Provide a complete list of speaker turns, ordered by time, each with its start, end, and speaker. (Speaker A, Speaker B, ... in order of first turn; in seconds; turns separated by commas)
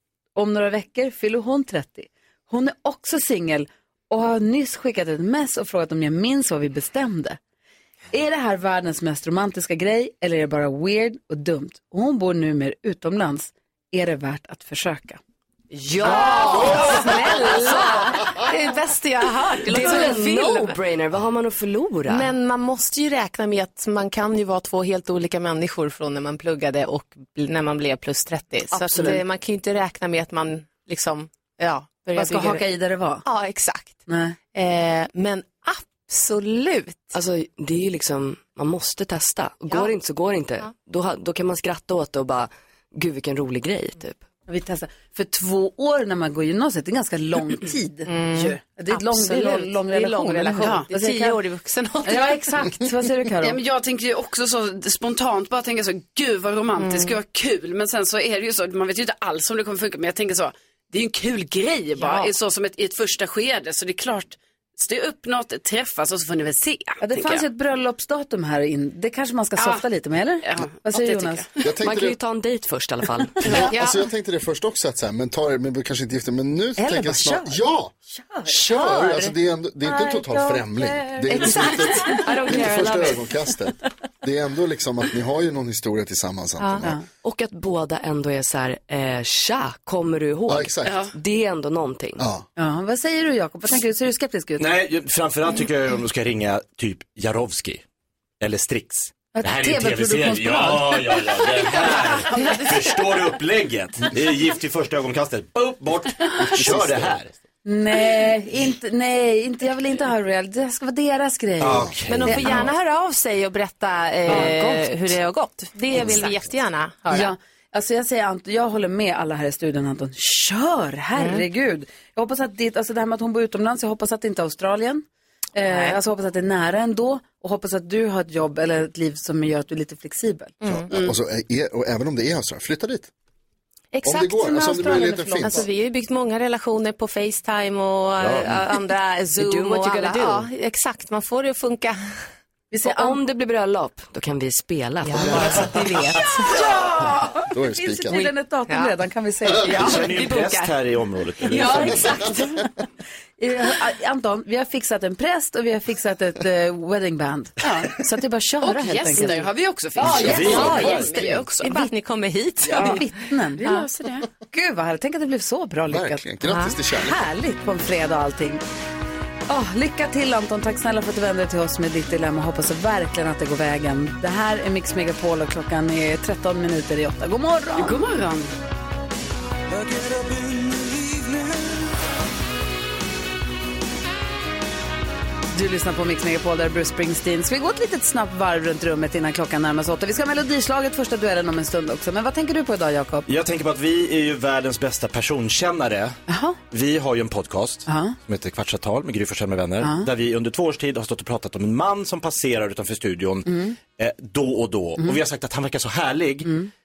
Speaker A: 0.3-7.4, Speaker A: 8.1-15.2, Speaker B: 16.0-20.7, Speaker C: 16.0-18.1, Speaker C: 19.7-22.2, Speaker B: 22.1-32.7, Speaker C: 28.7-29.2, Speaker A: 32.1-33.2, Speaker B: 33.2-37.1, Speaker A: 34.1-34.4, Speaker C: 37.1-44.2, Speaker A: 44.5-51.4, Speaker B: 48.0-52.8, Speaker D: 50.6-50.9, Speaker A: 52.0-53.6, Speaker D: 53.4-67.4, Speaker B: 56.8-57.2, Speaker B: 62.0-62.3, Speaker A: 67.0-71.4, Speaker D: 69.6-69.8, Speaker D: 70.4-71.7, Speaker E: 71.6-72.2, Speaker C: 71.8-73.4, Speaker A: 73.4-73.7, Speaker E: 73.4-77.9, Speaker B: 73.5-74.1, Speaker A: 76.8-77.6, Speaker A: 78.1-78.5, Speaker E: 78.5-86.9, Speaker B: 78.5-79.3, Speaker A: 79.9-82.4, Speaker B: 81.3-82.2, Speaker C: 82.1-83.2, Speaker B: 86.6-86.9, Speaker C: 87.2-92.2, Speaker E: 90.5-91.0, Speaker E: 92.2-92.5, Speaker A: 92.6-94.7, Speaker F: 94.6-97.8, Speaker F: 98.4-107.3, Speaker A: 99.3-101.5, Speaker E: 106.6-107.2, Speaker A: 107.6-112.6, Speaker F: 111.6-112.7, Speaker E: 111.7-112.0, Speaker B: 112.1-117.3, Speaker A: 114.3-114.9, Speaker A: 117.1-125.0, Speaker B: 121.1-121.4, Speaker A: 125.5-130.6, Speaker B: 125.7-126.0, Speaker B: 130.6-130.9, Speaker E: 130.7-133.1, Speaker B: 133.9-142.2, Speaker E: 134.0-135.7, Speaker A: 134.5-135.7, Speaker F: 138.2-138.5, Speaker C: 139.4-140.4, Speaker A: 142.7-143.2, Speaker C: 142.8-145.6, Speaker B: 145.1-147.0, Speaker A: 146.5-149.9, Speaker E: 147.5-148.2, Speaker B: 148.1-150.7, Speaker F: 149.6-152.3, Speaker B: 151.4-152.5, Speaker A: 153.4-159.5, Speaker D: 158.6-161.9, Speaker A: 160.1-161.8, Speaker B: 160.1-163.1, Speaker F: 160.1-161.3, Speaker D: 162.7-163.0, Speaker A: 162.7-163.9, Speaker D: 163.6-164.2, Speaker B: 163.6-163.9, Speaker A: 164.5-168.6, Speaker E: 165.9-167.2, Speaker B: 166.4-166.8, Speaker A: 169.5-178.0, Speaker D: 177.8-178.5, Speaker A: 185.5-193.3, Speaker F: 193.3-196.2, Speaker A: 196.3-196.6, Speaker F: 196.7-206.5, Speaker A: 197.9-198.2, Speaker A: 199.8-200.1, Speaker A: 203.4-203.8, Speaker A: 206.4-206.7